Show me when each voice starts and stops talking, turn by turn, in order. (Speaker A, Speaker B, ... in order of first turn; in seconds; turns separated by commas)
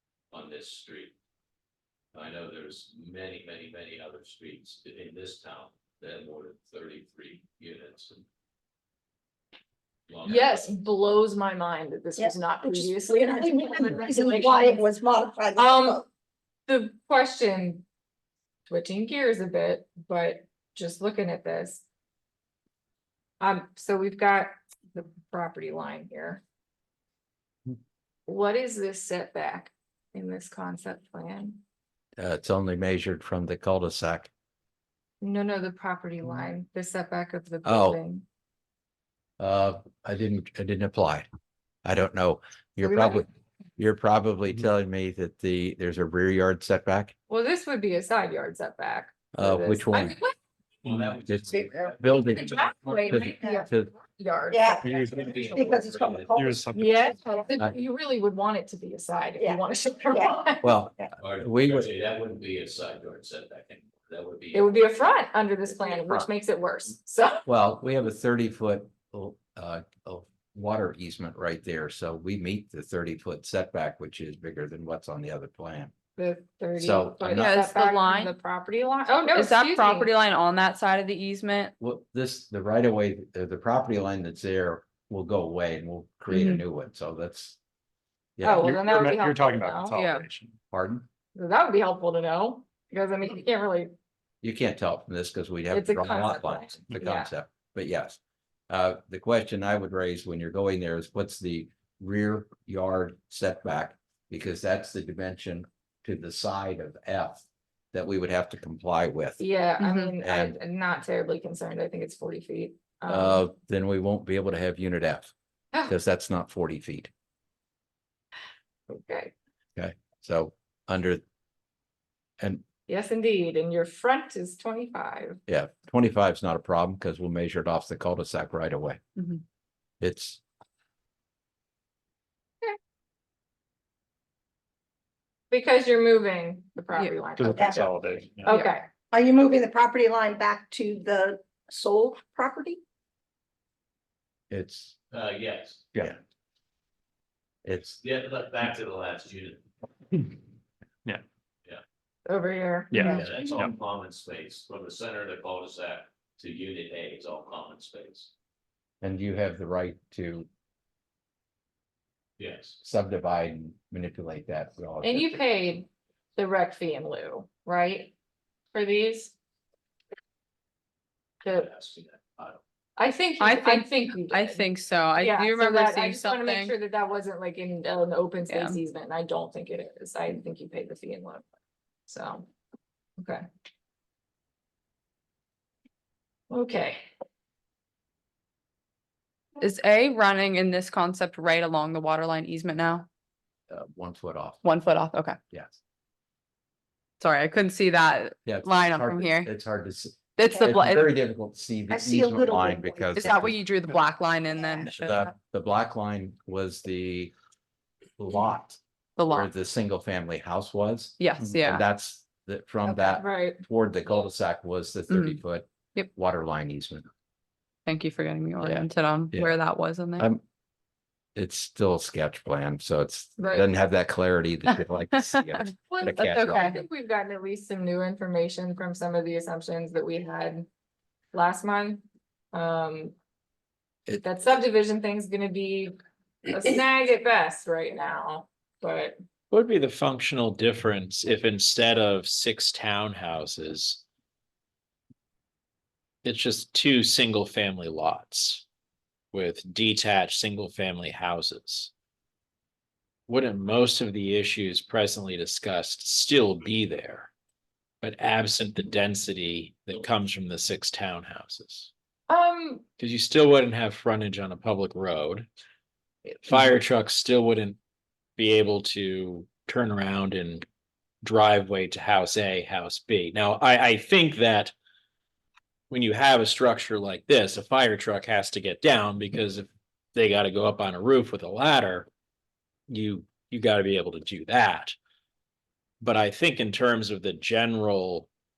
Speaker A: 0.3-1.1, Speaker A: 2.1-8.2, Speaker A: 10.1-10.7, Speaker B: 10.2-14.9, Speaker C: 12.2-16.0, Speaker B: 15.5-16.0, Speaker B: 16.7-17.8, Speaker B: 18.7-21.8, Speaker B: 23.4-26.4, Speaker B: 28.3-31.6, Speaker D: 32.2-34.3, Speaker B: 35.2-38.2, Speaker D: 37.6-38.0, Speaker D: 39.4-41.3, Speaker D: 41.8-43.2, Speaker B: 42.8-43.2, Speaker D: 43.8-47.1, Speaker B: 47.3-50.4, Speaker D: 49.3-50.2, Speaker A: 50.8-53.0, Speaker D: 51.2-53.9, Speaker C: 51.5-51.9, Speaker B: 52.3-55.5, Speaker C: 53.3-53.6, Speaker C: 54.5-54.8, Speaker E: 54.8-55.5, Speaker A: 54.8-56.4, Speaker C: 55.5-56.8, Speaker E: 56.4-57.1, Speaker B: 56.7-60.8, Speaker C: 59.4-61.1, Speaker D: 60.6-61.9, Speaker A: 61.2-64.9, Speaker B: 64.5-67.4, Speaker D: 67.5-75.9, Speaker B: 76.2-80.1, Speaker D: 76.8-77.5, Speaker F: 77.3-78.3, Speaker F: 79.3-81.7, Speaker D: 81.8-87.6, Speaker F: 86.3-86.6, Speaker D: 88.4-88.8, Speaker B: 88.4-90.0, Speaker E: 88.6-90.6, Speaker F: 89.9-90.2, Speaker D: 90.7-91.1, Speaker B: 91.3-93.9, Speaker D: 94.4-109.4, Speaker B: 95.7-97.3, Speaker B: 109.4-113.4, Speaker F: 109.8-110.1, Speaker D: 110.2-110.5, Speaker D: 113.1-115.3, Speaker D: 115.8-117.1, Speaker B: 118.9-119.3, Speaker D: 119.8-121.2, Speaker B: 122.9-125.4, Speaker D: 125.5-129.0, Speaker D: 130.0-130.4, Speaker B: 135.5-138.9, Speaker F: 136.9-137.2, Speaker E: 137.3-138.6, Speaker C: 137.6-137.9, Speaker F: 138.5-138.7, Speaker C: 139.0-142.8, Speaker D: 144.5-145.0, Speaker A: 145.1-145.8, Speaker D: 147.6-148.0, Speaker A: 148.0-149.6, Speaker B: 152.2-153.2, Speaker E: 152.9-153.7, Speaker A: 153.0-158.3, Speaker D: 159.0-160.5, Speaker A: 162.4-162.8, Speaker D: 162.8-165.4, Speaker B: 165.0-168.1, Speaker B: 168.7-169.3, Speaker B: 171.4-171.7, Speaker A: 171.6-172.6, Speaker B: 173.0-181.4, Speaker F: 173.4-176.8, Speaker F: 178.5-178.8, Speaker B: 182.1-182.5, Speaker B: 183.2-183.4, Speaker B: 186.5-187.0, Speaker F: 189.6-193.1, Speaker D: 193.7-194.6, Speaker F: 194.6-195.4, Speaker D: 195.5-195.8, Speaker F: 197.2-199.5, Speaker D: 198.4-204.0, Speaker F: 200.3-201.1, Speaker C: 201.9-203.4, Speaker F: 203.2-205.3, Speaker C: 204.5-204.9, Speaker D: 205.0-207.3, Speaker D: 208.2-217.1, Speaker F: 209.2-209.5, Speaker F: 211.2-211.8, Speaker B: 212.8-213.6, Speaker F: 215.1-215.4, Speaker F: 217.8-220.3, Speaker D: 218.6-219.6, Speaker D: 221.3-226.8, Speaker B: 223.4-223.7, Speaker B: 225.9-230.7, Speaker F: 226.5-226.7, Speaker B: 231.3-233.1, Speaker B: 234.2-236.0, Speaker B: 236.5-239.2, Speaker G: 239.5-244.0, Speaker G: 246.2-248.6, Speaker G: 249.3-251.9, Speaker G: 253.3-257.3, Speaker G: 258.0-261.9, Speaker B: 262.3-262.8, Speaker G: 263.0-265.5, Speaker G: 266.2-267.8, Speaker G: 268.4-270.6, Speaker G: 271.2-274.7, Speaker G: 275.9-282.1, Speaker G: 282.9-284.9, Speaker G: 286.0-288.3